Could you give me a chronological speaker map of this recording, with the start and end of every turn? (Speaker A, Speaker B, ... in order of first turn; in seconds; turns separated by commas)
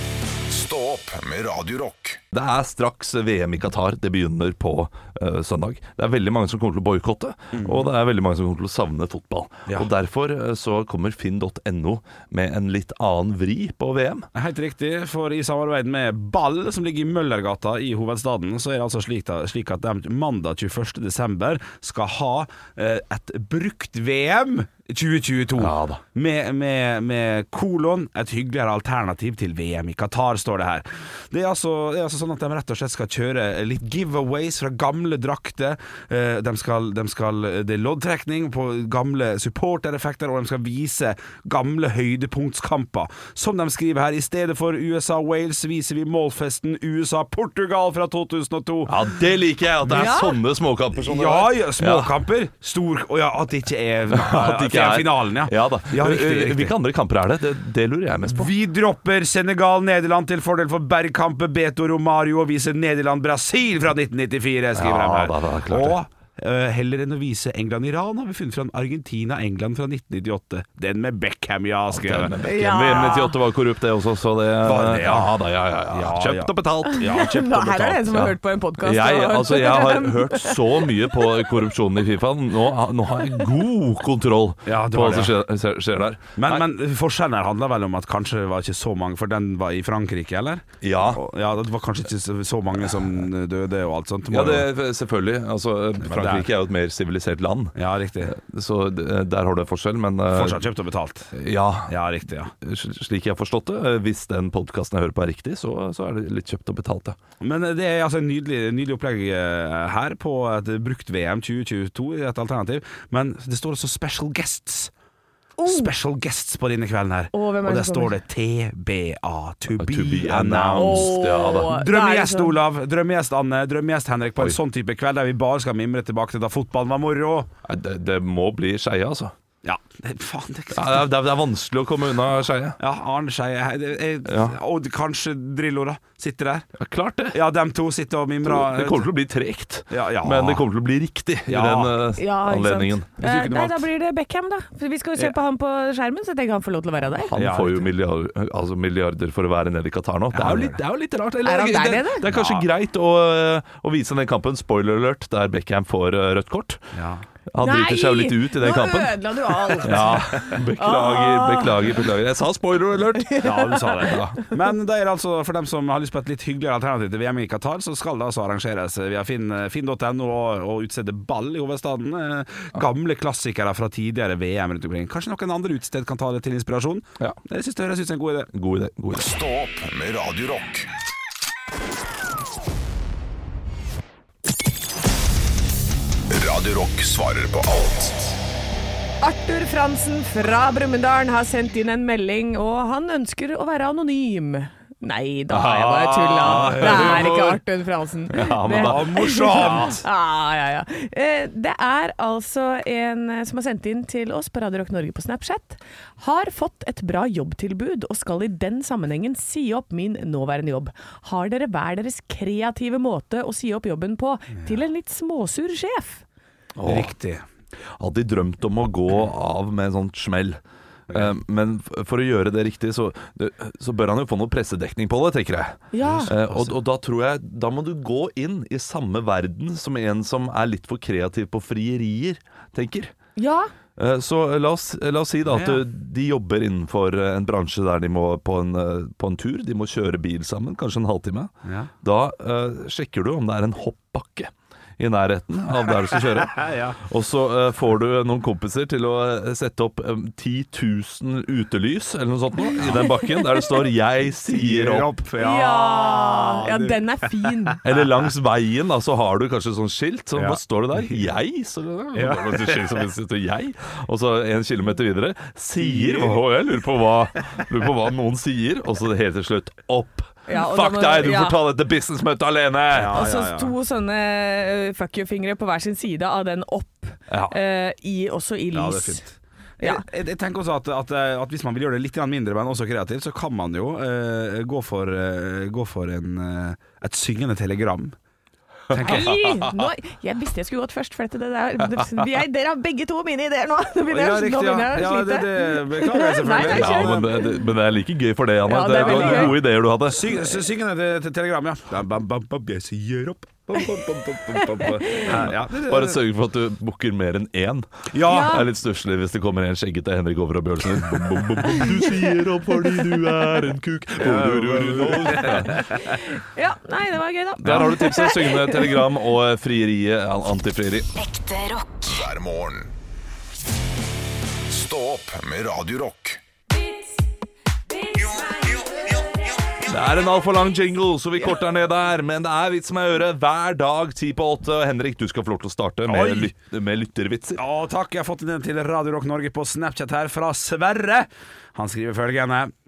Speaker A: 0.5-2.2, Speaker B: 2.3-14.3, Speaker C: 7.5-7.9, Speaker C: 14.3-49.0, Speaker B: 25.6-26.0, Speaker B: 48.9-52.1, Speaker D: 49.9-50.4, Speaker C: 51.0-56.8, Speaker B: 54.1-58.5, Speaker C: 58.3-72.4, Speaker B: 64.8-66.0, Speaker B: 71.9-77.2, Speaker D: 72.4-73.4, Speaker C: 74.6-75.4, Speaker C: 75.9-78.2, Speaker D: 76.9-81.5, Speaker B: 78.1-86.6, Speaker C: 84.7-85.4, Speaker C: 86.4-94.7, Speaker B: 90.8-91.2, Speaker B: 94.3-100.6, Speaker C: 96.0-96.5, Speaker C: 97.8-98.3, Speaker C: 100.3-102.5, Speaker B: 101.4-102.0, Speaker B: 102.6-107.2, Speaker C: 107.4-114.9, Speaker D: 115.6-115.9, Speaker C: 115.7-127.5, Speaker D: 117.3-118.2, Speaker B: 119.8-121.7, Speaker D: 120.7-122.6, Speaker B: 127.7-129.3, Speaker C: 129.6-131.1, Speaker B: 130.7-132.8, Speaker C: 132.8-136.7, Speaker B: 134.3-134.6, Speaker B: 136.8-137.4, Speaker C: 137.3-139.1, Speaker B: 138.4-143.1, Speaker C: 139.9-140.7, Speaker C: 141.5-142.0, Speaker D: 142.2-147.4, Speaker C: 143.2-143.9, Speaker B: 147.3-156.8, Speaker C: 147.3-147.9, Speaker C: 150.3-150.8, Speaker D: 151.4-152.2, Speaker C: 152.2-152.7, Speaker C: 156.9-157.2, Speaker B: 157.5-164.4, Speaker D: 157.6-161.9, Speaker D: 163.2-164.1, Speaker C: 163.4-178.5, Speaker B: 178.5-179.3, Speaker A: 179.2-180.9, Speaker A: 186.3-188.4, Speaker D: 189.2-216.2, Speaker B: 195.5-197.6, Speaker C: 196.4-197.4, Speaker B: 198.3-200.0, Speaker C: 198.8-200.0, Speaker B: 216.8-217.1, Speaker C: 216.8-217.4, Speaker B: 218.0-220.6, Speaker B: 221.1-233.1, Speaker D: 225.9-226.3, Speaker C: 226.0-226.8, Speaker D: 233.4-233.7, Speaker B: 234.0-255.1, Speaker C: 235.5-235.8, Speaker C: 241.7-241.9, Speaker C: 246.6-247.0, Speaker C: 252.8-253.1, Speaker D: 252.8-253.7, Speaker C: 254.5-257.9, Speaker D: 255.4-257.8, Speaker B: 257.8-273.2, Speaker C: 260.4-261.2, Speaker C: 262.1-263.1, Speaker C: 265.8-266.4, Speaker D: 270.5-271.6, Speaker C: 272.9-273.7, Speaker D: 273.1-279.2, Speaker B: 277.3-277.6, Speaker C: 278.7-288.1, Speaker D: 279.8-280.1, Speaker C: 288.9-289.4, Speaker D: 289.0-297.6, Speaker C: 294.1-297.4, Speaker B: 296.6-300.3, Speaker D: 298.7-299.6, Speaker C: 298.9-306.2, Speaker D: 304.5-305.4, Speaker B: 305.5-316.0, Speaker C: 308.1-308.6, Speaker D: 308.3-308.6, Speaker C: 311.1-311.8, Speaker C: 314.2-316.2, Speaker D: 316.1-319.0, Speaker B: 317.6-321.1, Speaker A: 321.5-322.9, Speaker A: 324.7-326.4, Speaker D: 326.8-327.1, Speaker D: 327.9-329.3, Speaker B: 329.8-337.6, Speaker C: 336.1-336.5, Speaker C: 337.6-342.7